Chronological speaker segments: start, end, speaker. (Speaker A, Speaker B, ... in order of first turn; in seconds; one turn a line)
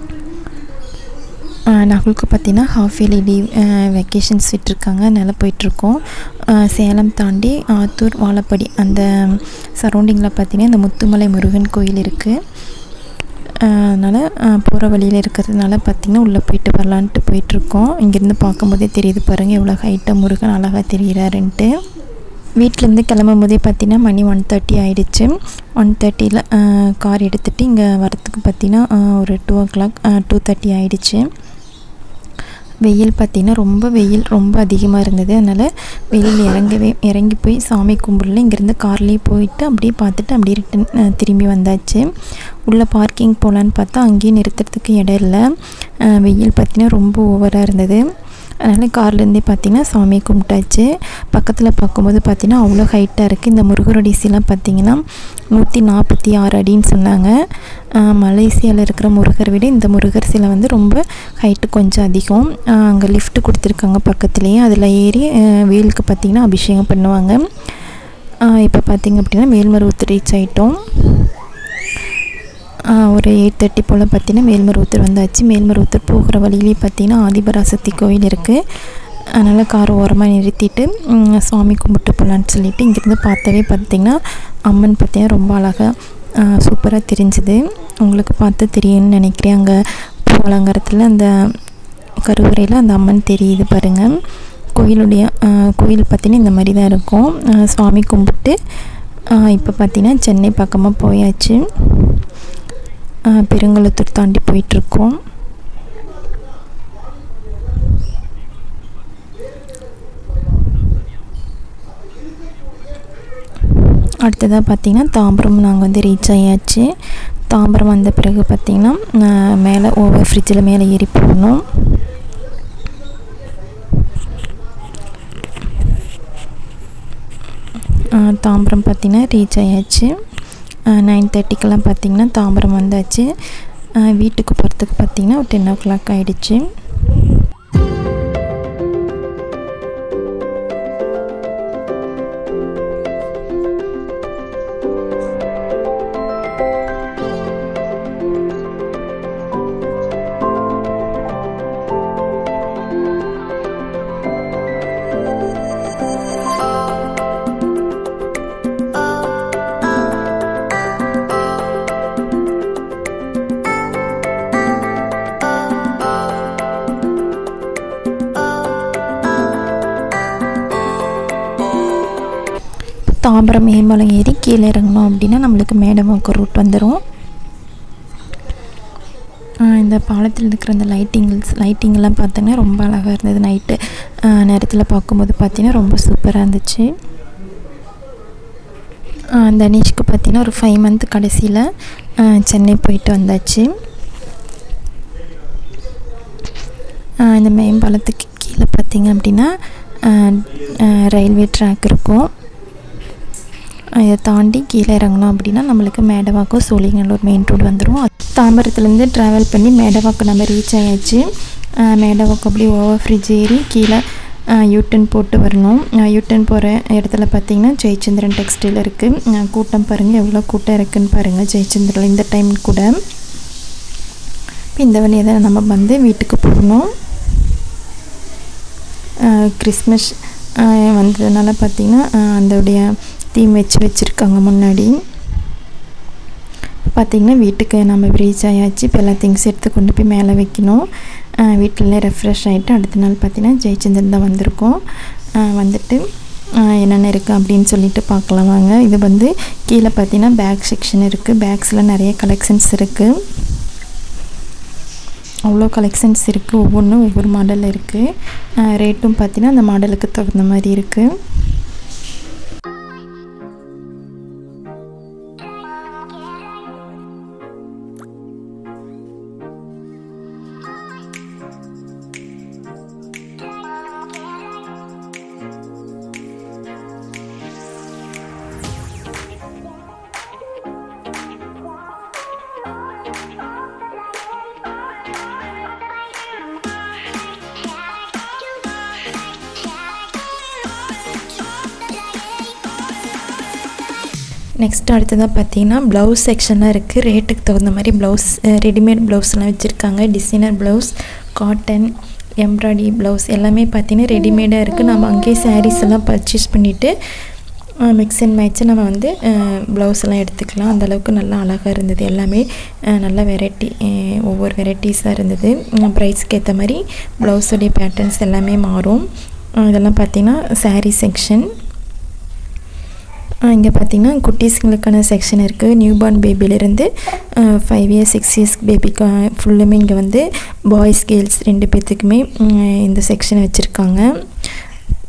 Speaker A: 1.7-12.4
Speaker A: 13.6-21.7
Speaker A: 22.6-31.2
Speaker A: 32.8-48.0
Speaker A: 48.6-57.4
Speaker A: 57.9-67.4
Speaker A: 68.5-71.3
Speaker A: 72.9-78.6
Speaker A: 79.3-91.3
Speaker A: 92.2-94.2
Speaker A: 94.8-98.6
Speaker A: 99.3-102.2
Speaker A: 103.3-105.2
Speaker A: 113.8-116.9
Speaker A: 117.5-122.0
Speaker A: 128.0-130.1
Speaker A: 130.9-133.3
Speaker A: 134.0-136.7
Speaker A: 173.0-177.0
Speaker A: 179.6-186.9
Speaker A: 189.4-193.7
Speaker A: 197.2-202.3
Speaker A: 203.9-223.0
Speaker A: 224.8-226.9
Speaker A: 229.2-235.0
Speaker A: 236.9-240.8
Speaker A: 241.4-244.8
Speaker A: 245.4-246.0
Speaker A: 246.6-253.1
Speaker A: 255.5-258.1
Speaker A: 258.6-261.1
Speaker A: 294.6-306.9
Speaker A: 307.8-319.1
Speaker A: 319.6-321.5
Speaker A: 323.5-334.5